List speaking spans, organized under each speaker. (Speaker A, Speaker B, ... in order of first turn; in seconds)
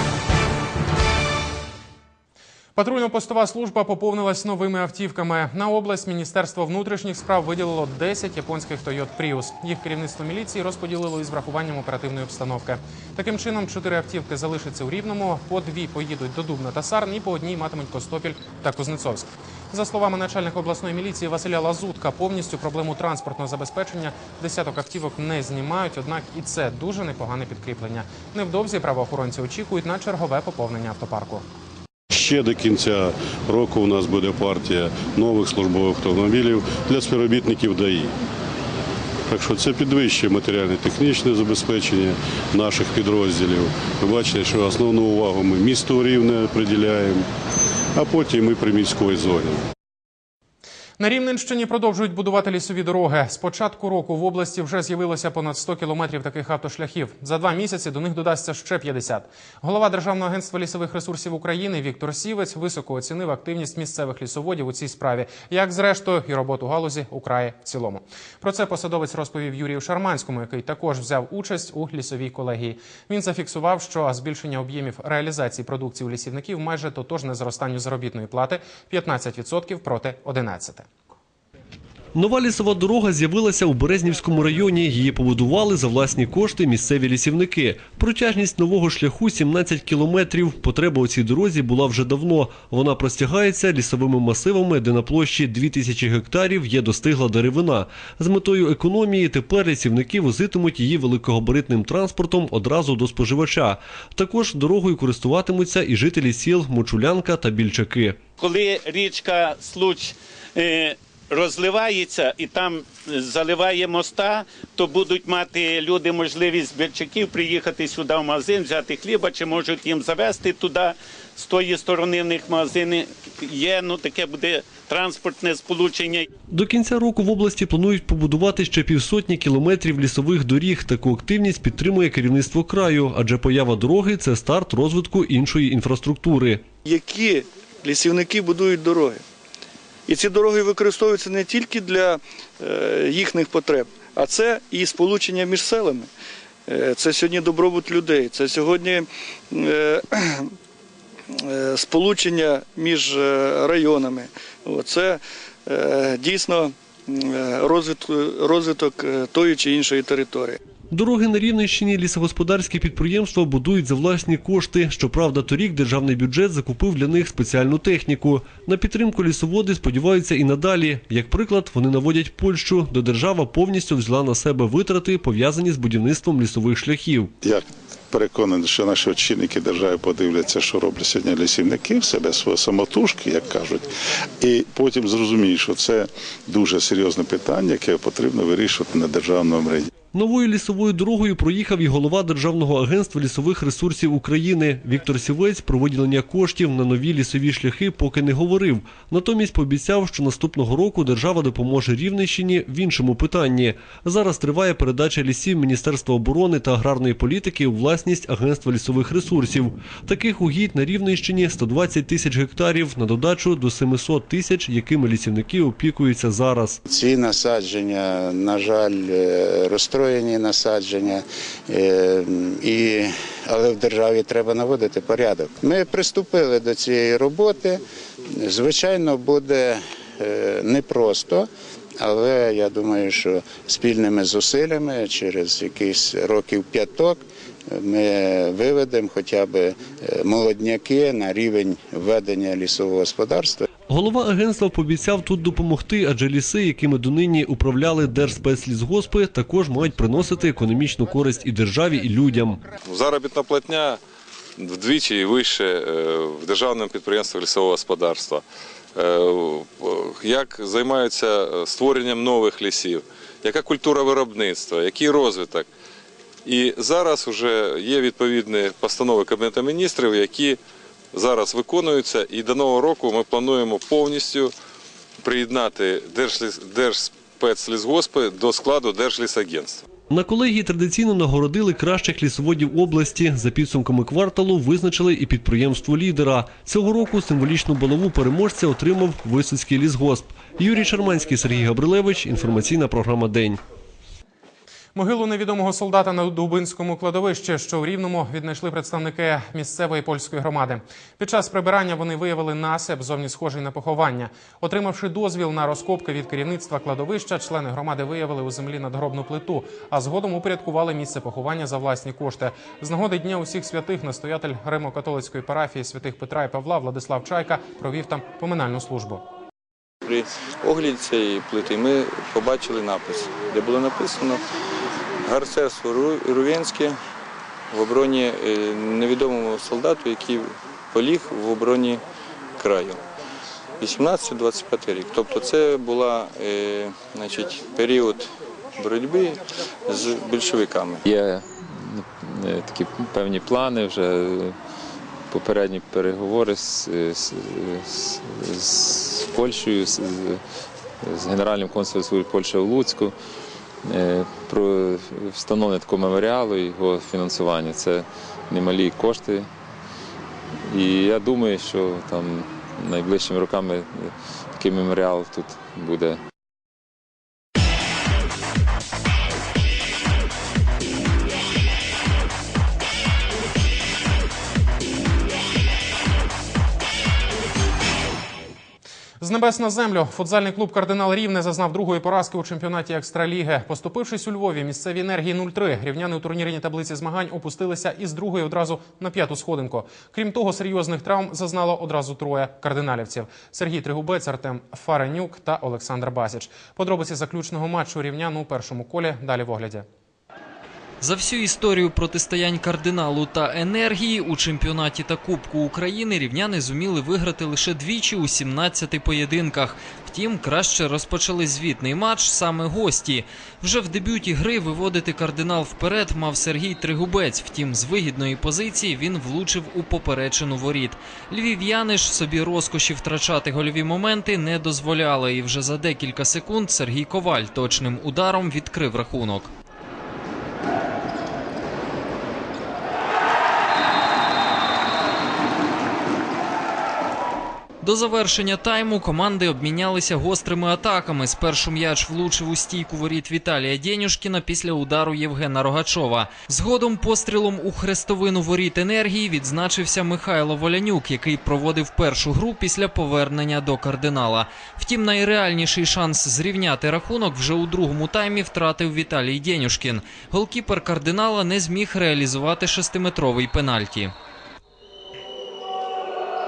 Speaker A: 2.8-31.4, 51.0-80.8, 294.9-319.2, 379.2-399.8
Speaker B: 32.1-38.1, 39.3-47.2, 47.9-49.6
Speaker C: 82.1-108.2, 126.5-136.6, 160.9-177.3, 190.1-216.8, 243.9-252.6, 280.1-293.6
Speaker D: 108.4-126.2
Speaker E: 136.8-139.2, 140.1-146.1, 146.7-150.5, 151.4-160.6
Speaker F: 177.4-183.9, 184.4-189.9
Speaker G: 216.9-227.8, 228.3-231.5, 232.0-243.7
Speaker H: 252.8-254.0, 254.6-258.4, 258.9-265.7, 266.4-270.6, 271.1-274.5, 275.2-279.8
Speaker I: 320.0-324.4, 325.2-327.0, 327.7-332.0, 332.6-333.0, 333.8-341.0
Speaker J: 341.0-344.5, 345.3-350.4, 351.0-353.1, 353.8-359.5, 360.6-366.2
Speaker K: 401.0-429.5, 437.8-464.1